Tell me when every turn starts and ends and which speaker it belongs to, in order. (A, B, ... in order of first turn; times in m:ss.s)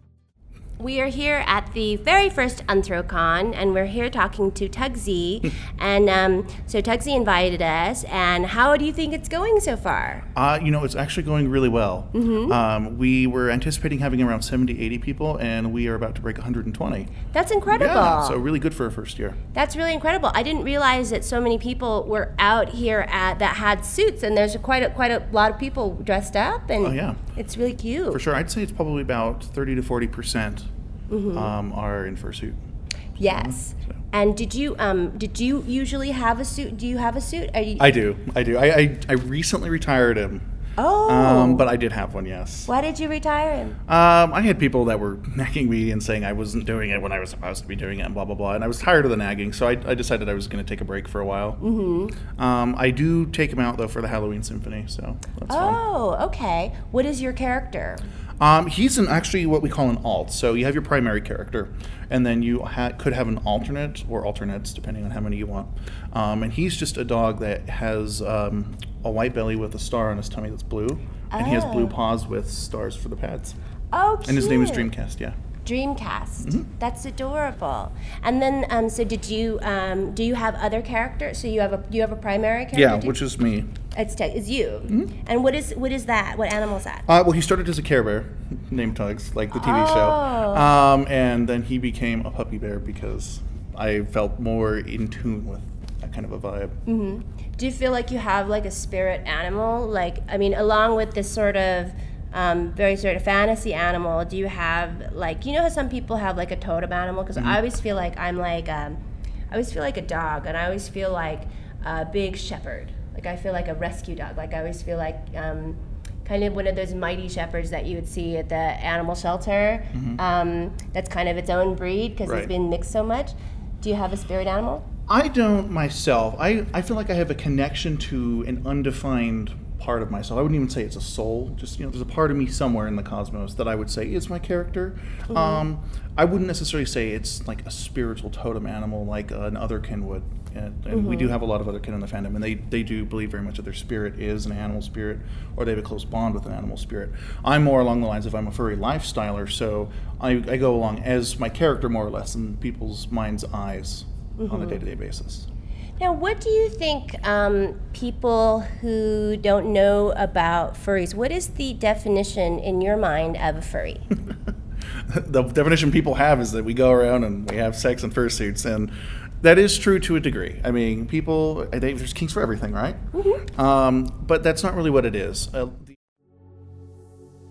0:00.8-0:10.2 A
0:10.3-0:19.4 B
0:12.1-0:12.6 A
0:17.3-0:18.4 A
0:19.5-0:28.2 A
0:26.8-0:27.2 B
0:28.1-0:30.7 B
0:31.1-0:31.5 A
0:31.3-0:32.6 B
0:33.2-0:37.9 A
0:33.2-0:33.9 B
0:37.8-0:40.4 B
0:40.8-0:41.7 A
0:41.0-0:42.7 B
0:42.7-0:43.8 A
0:43.9-0:51.6 B
0:51.6-0:52.2 A
0:52.3-0:55.8 B
0:55.5-0:58.0 A
0:58.4-1:13.6 B
1:11.3-1:12.0 A
1:13.9-1:14.9 A
1:14.2-1:15.4 B
1:15.6-1:23.2 A
1:16.4-1:16.7 B
1:22.7-1:23.7 B
1:23.9-1:27.0 A
1:24.9-1:25.1 B
1:27.1-1:36.7 B
1:29.5-1:30.7 A
1:36.8-1:49.0 A
1:49.5-2:04.8 A
1:59.9-2:00.2 B
2:02.2-2:02.5 B
2:05.1-2:35.5 B
2:15.3-2:15.6 A
2:20.9-2:21.4 A
2:34.4-2:34.8 A
2:36.0-2:44.0 A
2:45.1-2:53.0 B
2:53.1-2:53.4 A
2:53.5-2:55.9 B